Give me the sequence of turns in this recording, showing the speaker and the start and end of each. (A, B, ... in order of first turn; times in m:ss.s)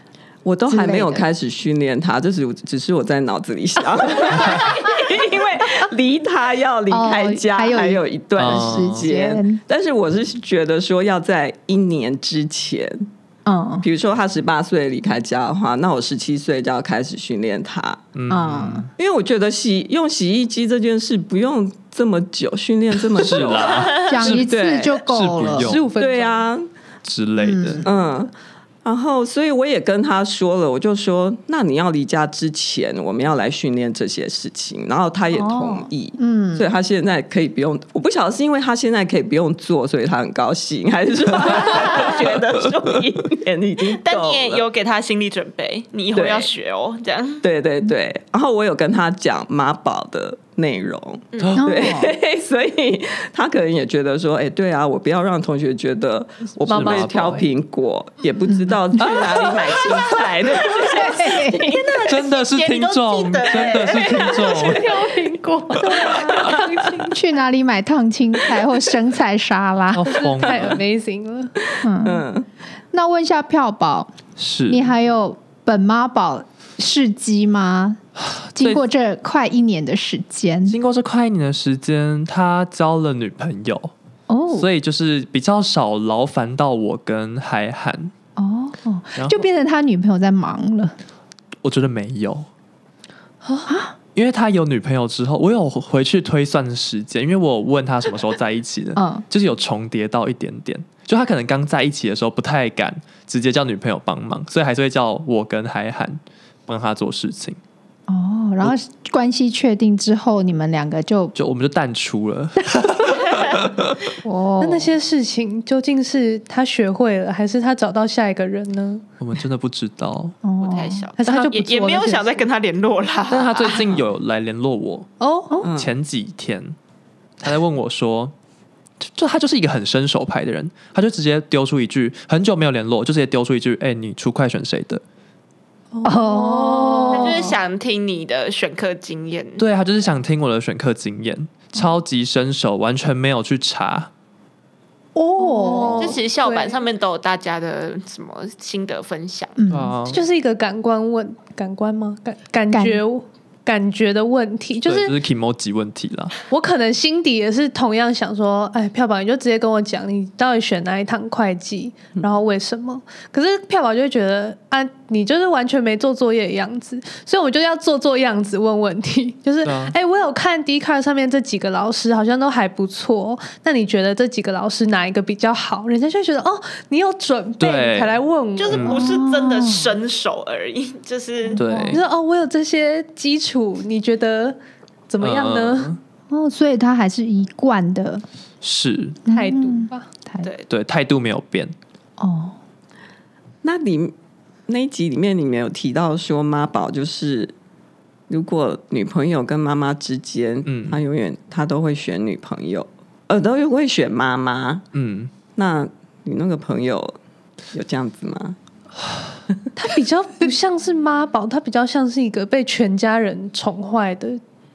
0:00.4-0:13.1 A
0:00.7-0:01.3 B
0:06.9-0:09.6 B
0:08.4-0:09.1 C
0:13.5-0:13.9 B
0:13.8-0:18.1 A
0:18.1-0:18.9 C
0:18.3-0:18.9 B
0:19.0-0:25.0 A
0:23.1-0:25.9 C
0:23.8-0:24.1 D
0:24.0-0:25.8 B
0:25.5-0:26.4 E
0:25.9-0:26.7 A
0:27.0-0:27.9 C
0:27.4-0:27.9 B
0:27.8-0:28.3 A
0:28.8-0:44.6 A
0:35.3-0:36.7 B
0:41.4-0:43.2 D
0:43.8-0:47.4 D
0:46.1-0:46.5 A
0:47.4-1:01.9 A
0:51.3-0:51.6 D
0:51.6-0:52.2 B
0:56.6-0:57.4 E
0:56.7-0:57.4 C
0:58.5-0:58.8 B
0:59.0-0:59.3 C
0:59.3-1:04.8 D
1:00.7-1:01.8 B
1:02.1-1:04.9 C
1:04.3-1:07.2 E
1:05.9-1:10.3 B
1:09.9-1:10.8 C
1:10.1-1:11.5 E
1:11.8-1:12.2 B
1:11.8-1:12.5 A
1:12.9-1:20.8 B
1:14.4-1:14.9 C
1:18.2-1:18.8 C
1:20.7-1:23.9 C
1:24.3-1:24.7 B
1:24.5-1:28.1 C
1:28.4-1:30.9 B
1:29.2-1:29.4 C
1:31.6-1:32.5 C
1:33.4-1:33.7 E
1:33.7-1:34.0 B
1:34.2-1:47.6 C
1:39.0-1:39.2 B
1:48.1-1:51.3 B
1:51.4-1:54.0 C
1:54.2-1:54.9 B
1:54.6-1:59.0 E
1:59.2-2:00.4 C
2:00.4-2:01.1 B
2:00.6-2:04.0 D
2:01.2-2:02.4 E
2:03.3-2:05.1 C
2:05.2-2:05.6 E
2:05.6-2:05.9 A
2:05.7-2:06.8 C
2:07.4-2:08.3 C
2:09.0-2:15.0 C
2:15.9-2:17.5 E
2:16.0-2:17.5 B
2:17.1-2:19.6 D
2:19.6-2:24.1 C
2:25.2-2:26.2 B
2:25.4-2:26.8 E
2:26.0-2:29.6 D
2:29.6-2:30.0 B
2:29.7-2:30.2 C
2:30.0-2:35.2 E
2:32.7-2:33.0 B
2:34.8-2:36.4 C
2:36.5-2:59.0 E
2:49.6-2:50.0 C
2:57.6-2:58.2 C
2:58.6-3:01.6 D
2:58.7-2:59.0 C
2:58.8-2:59.9 B
3:01.5-3:02.0 B
3:01.6-3:02.0 C
3:01.9-3:04.6 E
3:05.1-3:06.0 E
3:05.2-3:06.0 C
3:06.3-3:08.2 B
3:08.6-3:09.2 C
3:09.3-3:10.5 B
3:09.3-3:10.1 E
3:10.4-3:10.7 D
3:10.7-3:11.7 C
3:12.2-3:12.6 B
3:13.6-3:14.1 A
3:14.7-3:17.5 A
3:18.3-3:24.9 A
3:20.7-3:21.0 C
3:24.9-3:25.3 C
3:25.5-3:27.2 A
3:27.7-3:28.6 A
3:29.8-3:34.4 E